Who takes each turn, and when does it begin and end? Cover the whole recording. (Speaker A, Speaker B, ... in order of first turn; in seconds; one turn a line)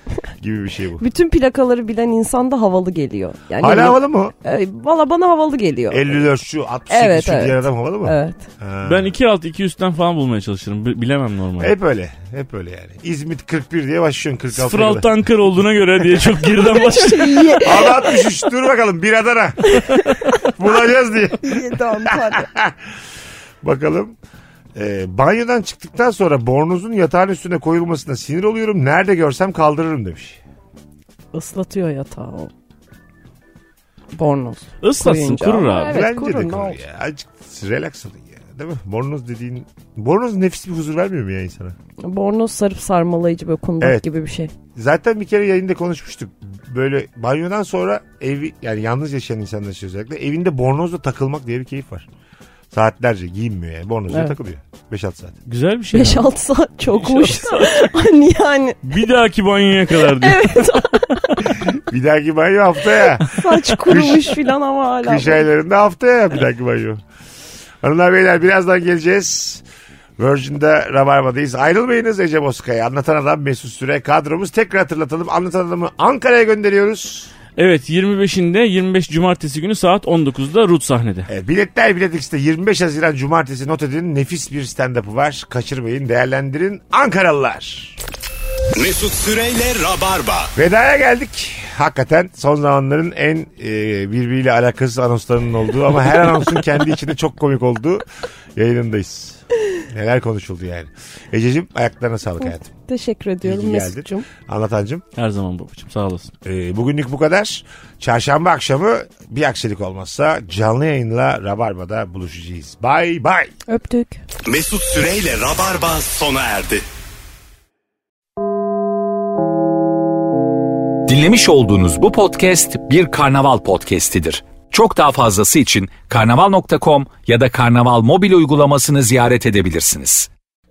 Speaker A: 0.4-1.0
Speaker B: 1.0-6.3
Speaker A: 3.6-4.3
Speaker A: 5.9-9.1
Speaker B: 6.9-8.4
Speaker C: 8.8-11.7
Speaker A: 11.6-15.1
Speaker C: 14.5-17.6
Speaker B: 16.6-18.2
Speaker A: 17.6-19.8
Speaker B: 19.7-20.5
Speaker A: 20.4-22.8
Speaker B: 21.4-22.5
Speaker A: 23.6-24.1
Speaker A: 24.8-30.4
Speaker B: 31.3-32.5
Speaker B: 34.1-36.8
Speaker C: 34.8-36.0
Speaker A: 35.9-41.8
Speaker B: 42.0-44.5
Speaker A: 43.8-44.1
Speaker A: 44.8-52.1
Speaker A: 52.7-55.4
Speaker C: 55.5-56.3
Speaker B: 55.9-58.9
Speaker C: 56.9-57.9
Speaker C: 58.9-60.6
Speaker B: 60.2-61.6
Speaker A: 61.6-64.4
Speaker B: 63.2-65.5
Speaker A: 65.0-67.0
Speaker A: 67.8-69.6
Speaker A: 70.2-77.3
Speaker C: 77.6-81.3
Speaker A: 81.3-88.0
Speaker D: 88.8-90.5
Speaker A: 90.5-102.7
Speaker B: 102.9-104.3
Speaker A: 103.4-105.0
Speaker C: 105.2-106.3
Speaker A: 106.5-113.5
Speaker B: 113.7-114.2
Speaker D: 114.5-116.8
Speaker E: 121.1-130.3